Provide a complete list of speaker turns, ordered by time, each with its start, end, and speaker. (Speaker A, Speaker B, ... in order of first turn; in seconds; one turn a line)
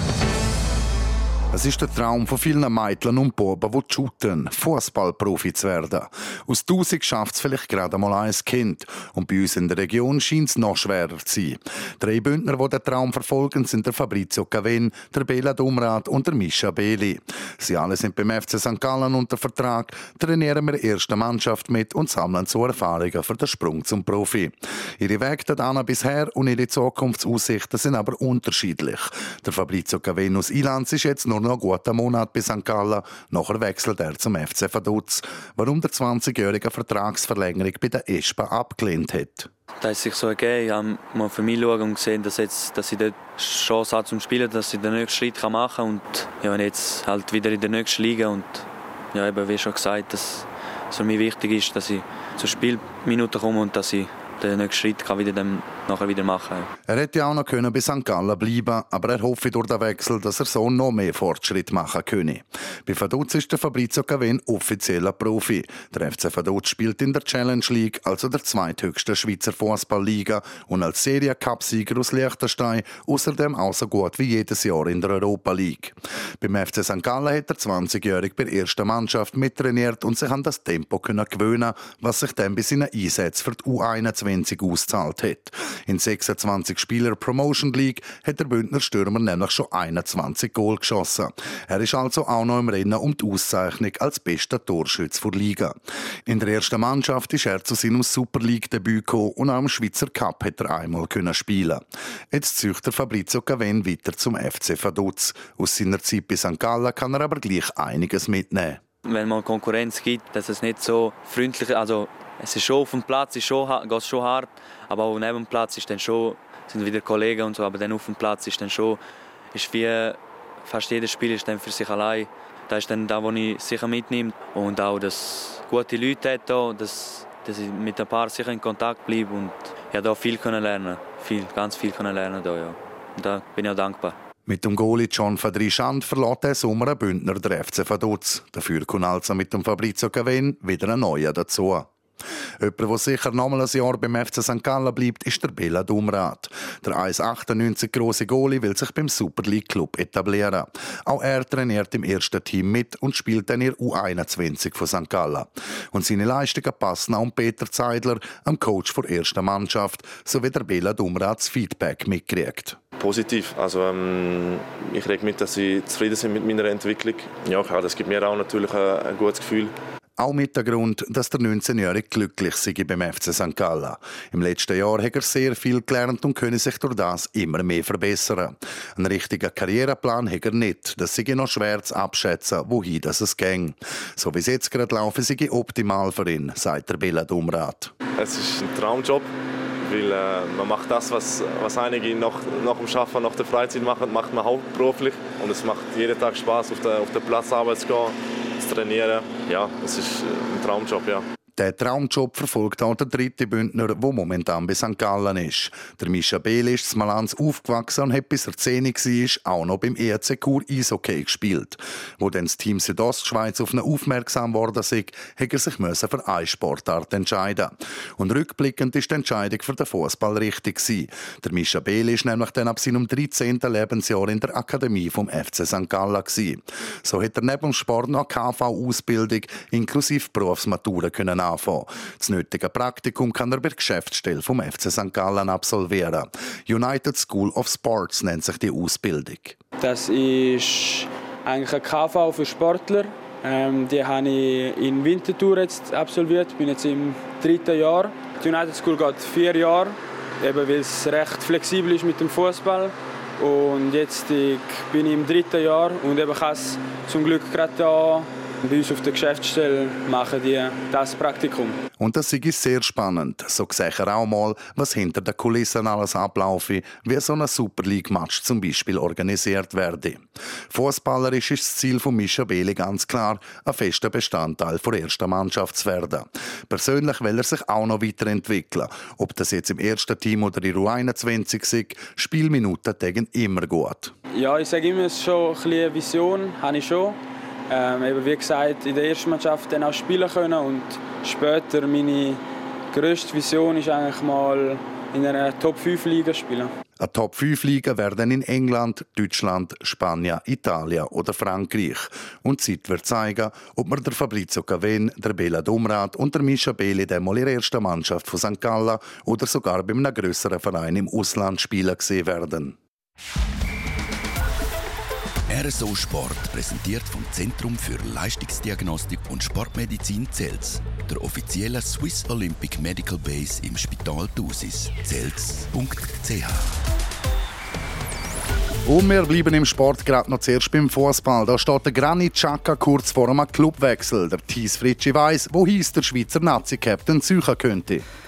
Speaker A: 1.5-39.5
Speaker B: 39.8-56.7
Speaker A: 56.9-108.8
Speaker B: 109.0-119.0
Speaker B: 119.5-134.2
Speaker A: 134.4-141.9
Speaker A: 142.6-162.8
Speaker C: 163.0-169.7
Speaker A: 170.2-187.9
Speaker C: 188.2-189.3
Speaker C: 189.8-201.2
Speaker A: 201.6-239.6
Speaker D: 239.8-261.8
Speaker A: 262.0-284.1
Speaker D: 284.3-287.2
Speaker D: 287.7-292.4
Speaker D: 292.9-296.7
Speaker A: 297.0-312.8
Speaker E: 315.5-326.7
Speaker A: 328.9-338.0